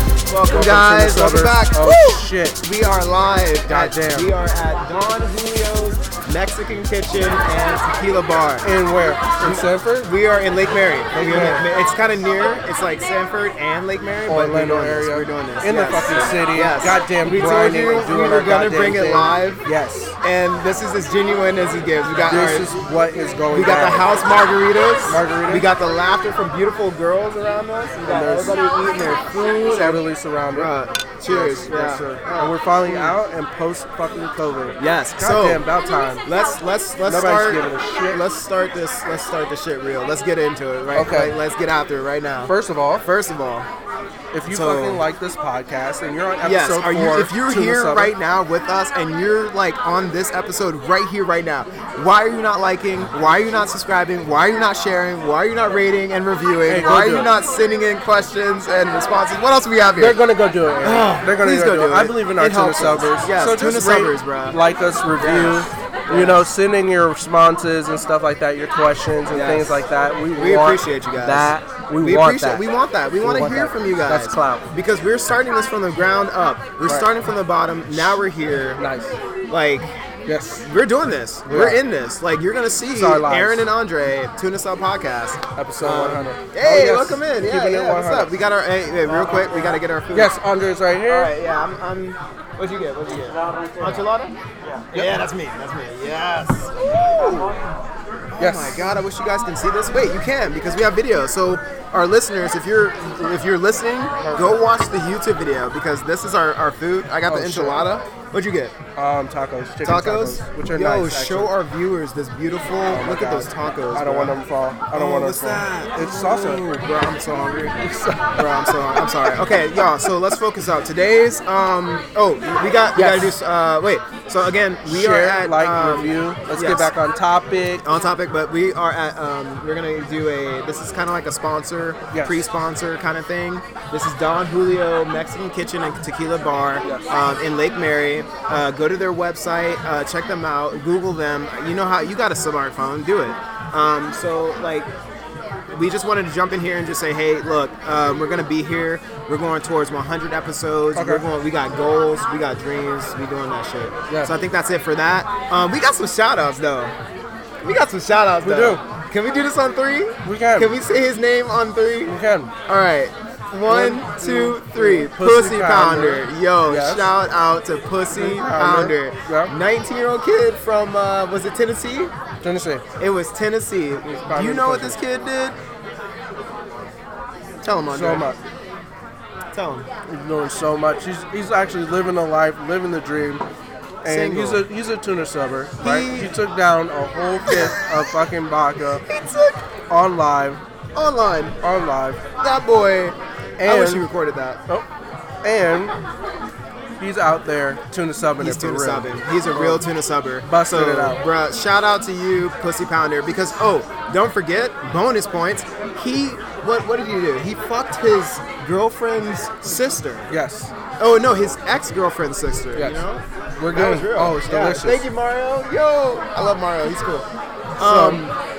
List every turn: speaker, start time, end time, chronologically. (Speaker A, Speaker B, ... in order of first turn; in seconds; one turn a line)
Speaker A: 0.3-8.7
Speaker B: 0.5-2.6
Speaker B: 3.7-4.3
Speaker B: 8.6-10.1
Speaker A: 9.4-19.6
Speaker B: 11.1-11.6
Speaker B: 14.3-20.1
Speaker A: 20.2-22.7
Speaker B: 22.3-24.1
Speaker A: 23.5-33.2
Speaker B: 25.1-25.7
Speaker B: 28.0-28.6
Speaker B: 29.6-30.7
Speaker B: 31.2-36.2
Speaker A: 34.8-35.6
Speaker A: 36.2-43.7
Speaker B: 37.0-38.2
Speaker B: 40.9-41.3
Speaker B: 42.5-43.0
Speaker B: 44.3-48.1
Speaker A: 44.5-45.0
Speaker A: 46.4-60.2
Speaker B: 56.7-57.3
Speaker B: 60.0-72.6
Speaker A: 60.8-64.6
Speaker A: 65.2-66.5
Speaker A: 69.3-69.8
Speaker A: 70.3-78.8
Speaker B: 73.2-74.7
Speaker B: 76.8-77.1
Speaker B: 77.9-78.2
Speaker B: 78.8-79.1
Speaker A: 79.5-79.9
Speaker B: 80.2-80.6
Speaker A: 80.6-90.3
Speaker B: 81.5-81.8
Speaker B: 82.9-83.6
Speaker B: 85.5-88.3
Speaker B: 90.1-91.3
Speaker A: 91.1-94.3
Speaker A: 94.9-97.6
Speaker A: 98.3-108.7
Speaker B: 98.4-98.8
Speaker B: 104.2-104.6
Speaker B: 107.3-107.8
Speaker B: 109.0-111.5
Speaker A: 109.8-114.3
Speaker B: 112.9-116.6
Speaker A: 114.9-126.9
Speaker B: 117.9-119.3
Speaker B: 122.9-123.3
Speaker B: 124.9-127.8
Speaker A: 127.8-144.9
Speaker B: 132.1-132.4
Speaker B: 136.8-137.1
Speaker A: 145.7-156.9
Speaker B: 150.9-151.2
Speaker B: 154.1-154.3
Speaker A: 157.6-172.1
Speaker B: 158.4-158.8
Speaker B: 160.2-160.8
Speaker B: 162.1-162.5
Speaker B: 163.7-167.1
Speaker B: 168.1-169.5
Speaker B: 172.4-172.8
Speaker A: 173.0-175.6
Speaker B: 174.0-175.0
Speaker A: 177.6-178.3
Speaker B: 177.9-178.4
Speaker A: 179.5-179.9
Speaker B: 180.1-183.4
Speaker B: 184.0-189.0
Speaker A: 184.0-184.6
Speaker A: 185.8-186.3
Speaker A: 187.5-188.1
Speaker A: 189.0-189.6
Speaker B: 189.9-190.6
Speaker A: 190.9-191.6
Speaker B: 191.6-192.2
Speaker A: 192.4-194.6
Speaker B: 193.6-194.0
Speaker B: 195.4-195.9
Speaker B: 197.0-199.8
Speaker A: 198.4-210.3
Speaker B: 200.4-201.2
Speaker B: 210.3-210.7
Speaker A: 211.0-217.3
Speaker B: 212.7-213.0
Speaker B: 213.6-215.0
Speaker A: 217.8-218.3
Speaker B: 217.8-218.2